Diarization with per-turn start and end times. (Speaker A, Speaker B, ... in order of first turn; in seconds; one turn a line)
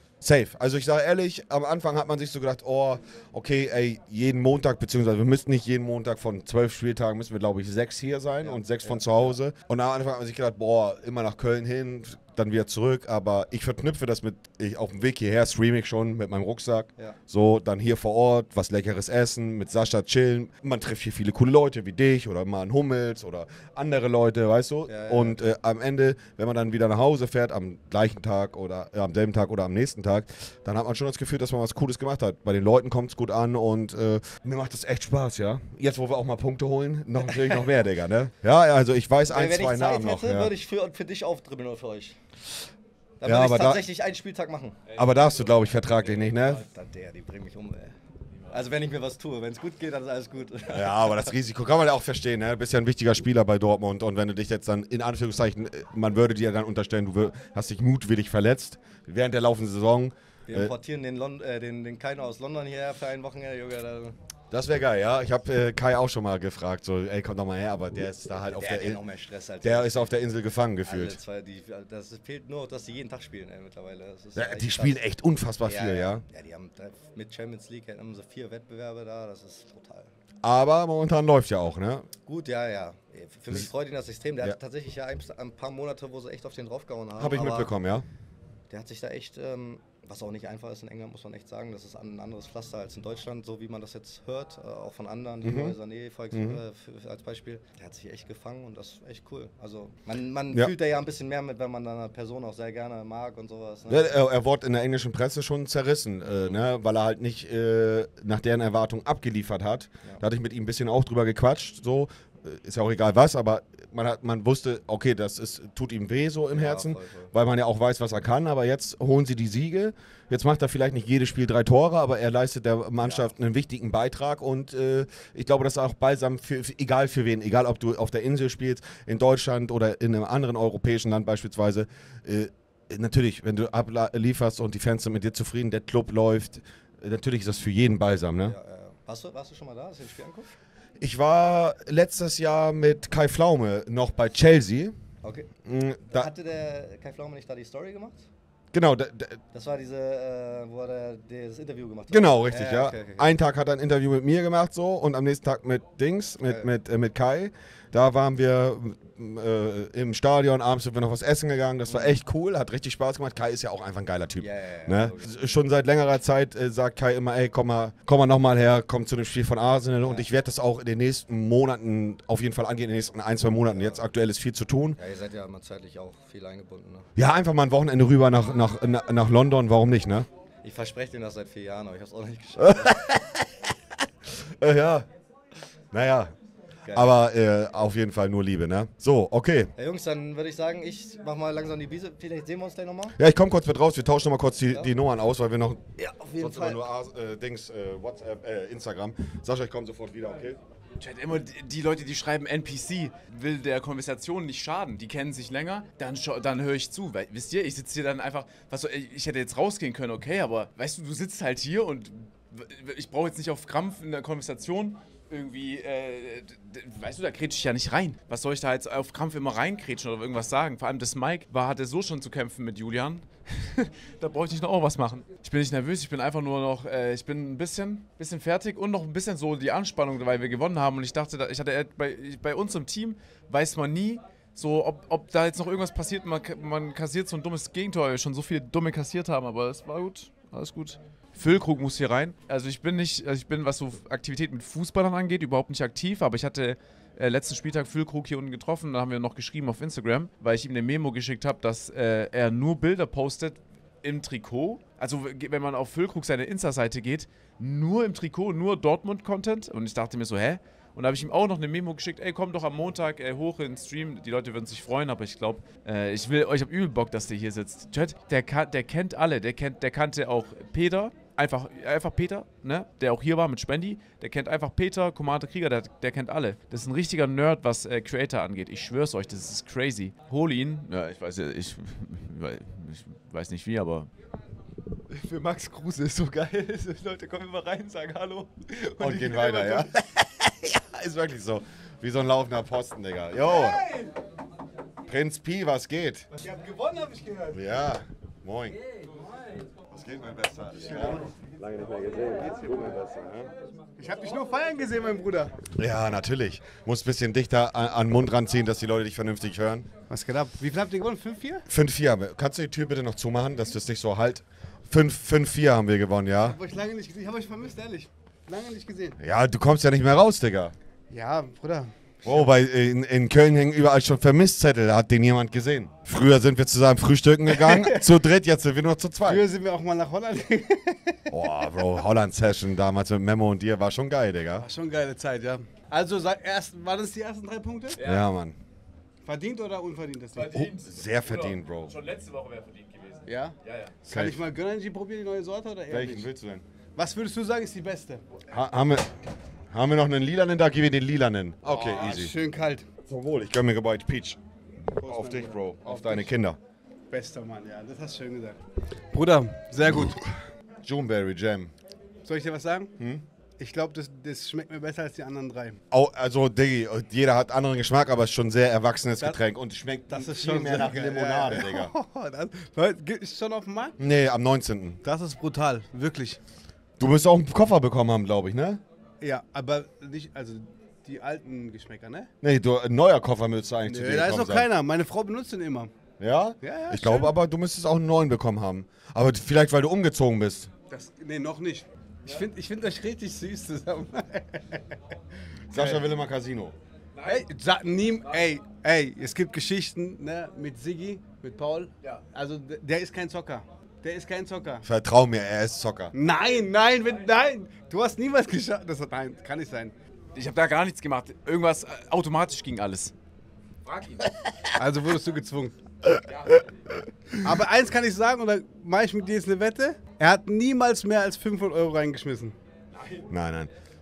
Speaker A: 0.2-40.5
Speaker B: 8.4-9.4
Speaker B: 24.9-25.4
Speaker B: 39.3-42.2
Speaker B: 43.2-44.8
Speaker A: 43.2-43.8
Speaker C: 44.9-46.7
Speaker A: 45.0-46.6
Speaker B: 46.6-47.9
Speaker C: 48.3-48.7
Speaker B: 48.5-51.2
Speaker A: 50.7-60.7
Speaker B: 60.5-64.2
Speaker A: 64.5-69.0
Speaker B: 68.5-70.1
Speaker A: 69.6-71.2
Speaker B: 70.8-75.0
Speaker A: 74.3-76.2
Speaker B: 75.6-80.1
Speaker A: 80.4-82.0
Speaker B: 82.3-87.7
Speaker A: 87.2-88.0
Speaker B: 88.7-104.1
Speaker A: 95.4-95.8
Speaker A: 96.3-96.6
Speaker A: 103.9-138.6
Speaker B: 106.2-106.6
Speaker B: 116.5-117.3
Speaker B: 123.0-123.3
Speaker B: 138.4-140.5
Speaker A: 141.0-144.9
Speaker B: 145.2-145.5
Speaker A: 145.6-146.3
Speaker B: 146.1-148.3
Speaker A: 148.7-149.4
Speaker B: 149.5-153.3
Speaker A: 152.1-174.9
Speaker B: 161.9-162.2
Speaker B: 164.4-165.3
Speaker B: 173.7-174.0
Speaker B: 175.0-177.1
Speaker A: 177.2-180.3
Speaker B: 180.6-182.9
Speaker A: 182.7-183.4
Speaker A: 184.4-185.1
Speaker A: 185.9-186.3
Speaker B: 186.8-187.1
Speaker A: 186.9-189.7
Speaker B: 189.8-193.2
Speaker A: 193.2-200.6
Speaker B: 196.0-196.8
Speaker C: 201.0-284.1
Speaker C: 285.1-289.9
Speaker A: 289.0-293.8
Speaker D: 293.5-294.1
Speaker A: 295.1-296.3
Speaker D: 296.4-297.8
Speaker A: 297.5-298.8
Speaker A: 299.9-303.4
Speaker D: 300.9-303.1
Speaker D: 304.0-305.6
Speaker A: 305.7-309.9
Speaker D: 310.1-311.6
Speaker A: 311.7-316.6
Speaker D: 316.4-319.2
Speaker A: 319.2-320.7
Speaker D: 321.1-322.5
Speaker A: 322.2-329.4
Speaker D: 327.5-328.1
Speaker D: 329.2-331.2
Speaker A: 331.3-334.7
Speaker D: 334.6-338.0
Speaker C: 338.0-338.2
Speaker A: 338.0-338.6
Speaker D: 339.2-340.7
Speaker C: 340.3-343.9
Speaker A: 340.6-341.9
Speaker D: 343.3-346.3
Speaker A: 344.1-344.4
Speaker A: 345.9-346.6
Speaker D: 346.9-348.2
Speaker A: 348.5-349.1
Speaker A: 349.7-352.3
Speaker D: 351.6-352.9
Speaker C: 351.7-352.2
Speaker A: 353.1-354.4
Speaker D: 355.0-356.3
Speaker A: 355.0-356.6
Speaker D: 357.1-358.6
Speaker D: 359.1-360.3
Speaker A: 359.8-360.1
Speaker A: 360.8-361.7
Speaker D: 362.2-362.9
Speaker A: 363.0-363.2
Speaker D: 363.6-365.8
Speaker A: 365.9-371.9
Speaker D: 370.1-374.0
Speaker A: 374.0-375.0
Speaker D: 375.0-376.4
Speaker A: 377.0-378.8
Speaker D: 379.2-382.3
Speaker A: 382.4-384.7
Speaker D: 383.9-385.9
Speaker A: 386.2-390.7
Speaker D: 386.6-387.3
Speaker D: 390.9-394.8
Speaker C: 392.2-392.5
Speaker A: 395.7-396.8
Speaker D: 395.7-396.1
Speaker C: 397.1-398.5
Speaker D: 397.2-404.8
Speaker A: 404.8-406.1
Speaker D: 406.1-409.9
Speaker C: 410.3-413.1
Speaker C: 413.8-414.3
Speaker D: 414.8-415.8
Speaker C: 416.2-416.7
Speaker D: 417.4-422.6
Speaker C: 422.9-423.3
Speaker A: 423.3-423.7